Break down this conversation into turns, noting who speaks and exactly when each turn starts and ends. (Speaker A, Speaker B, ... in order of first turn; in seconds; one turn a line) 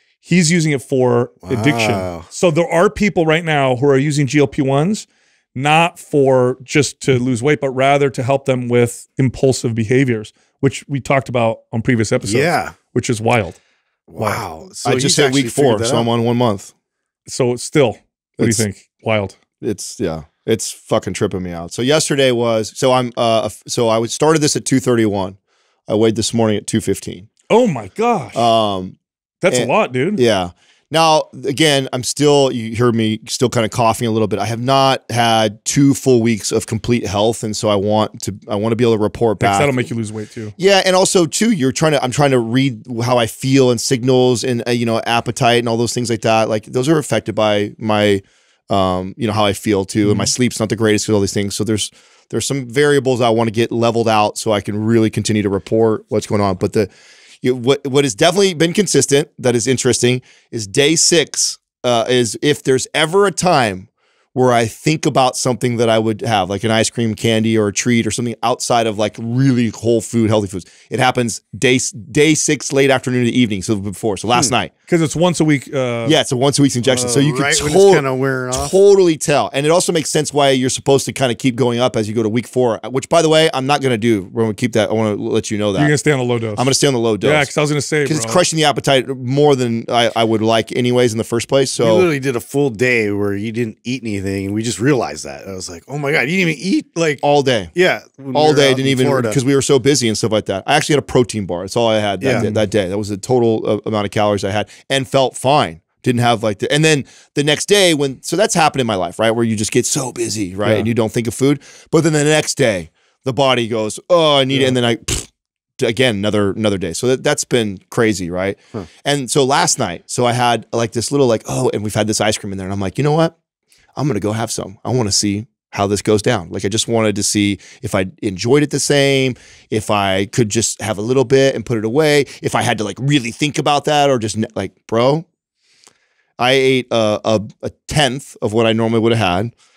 Speaker A: 0.2-13.6
Speaker B: 1.4-2.3
Speaker B: 12.2-12.7
Speaker B: 14.1-16.1
Speaker C: 14.8-16.7
Speaker A: 17.3-19.4
Speaker C: 18.4-18.6
Speaker C: 19.6-27.3
Speaker A: 27.5-28.4
Speaker C: 28.3-29.0
Speaker A: 29.4-30.2
Speaker C: 29.5-39.9
Speaker A: 39.4-40.5
Speaker C: 40.6-56.9
Speaker C: 57.4-74.7
Speaker A: 74.9-76.2
Speaker C: 76.0-86.0
Speaker B: 76.8-78.7
Speaker A: 85.7-86.7
Speaker C: 86.5-87.5
Speaker A: 87.2-88.4
Speaker C: 88.0-92.1
Speaker B: 91.8-97.2
Speaker C: 97.2-97.7
Speaker B: 97.7-99.4
Speaker C: 98.3-123.3
Speaker B: 102.2-102.5
Speaker A: 102.3-102.6
Speaker C: 124.0-135.2
Speaker C: 136.4-139.5